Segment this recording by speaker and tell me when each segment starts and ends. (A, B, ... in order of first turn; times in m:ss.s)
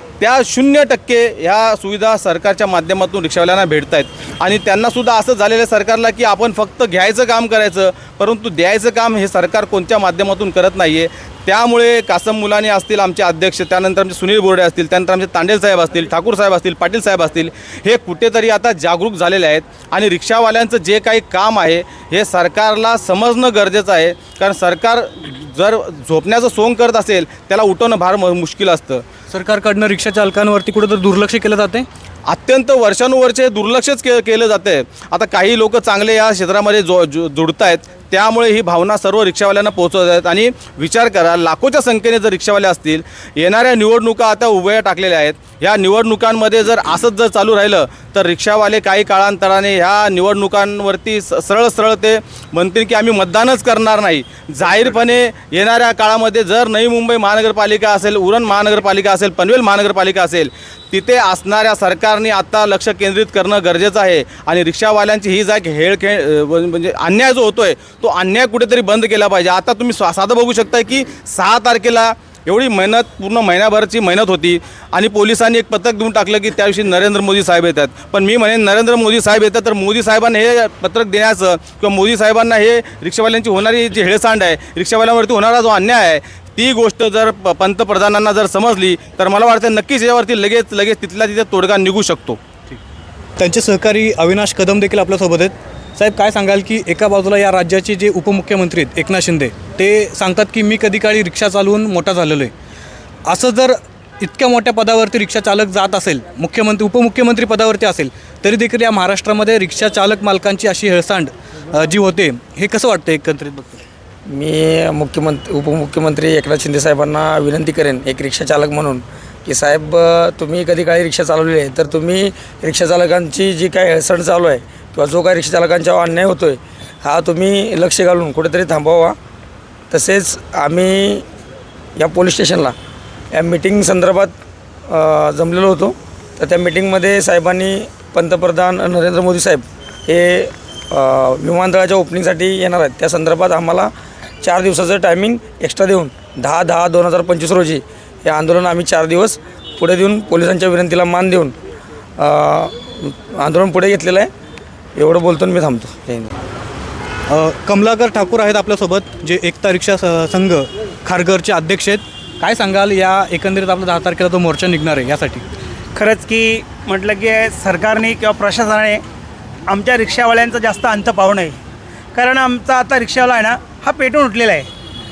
0:00.2-0:29.0 A
0:29.3-0:31.9 B
0:32.3-1:32.4 A
1:33.4-1:42.5 B
1:43.3-1:53.8 B
1:54.3-2:09.2 C
2:09.9-2:11.2 C
2:12.0-2:12.8 C
2:13.3-2:14.4 C
2:14.9-2:23.9 C
2:24.4-2:31.6 C
2:32.2-2:34.3 C
2:35.0-2:36.3 C
2:37.3-2:45.4 B
2:46.0-2:49.0 D
2:49.7-2:51.6 D
2:52.1-2:54.7 D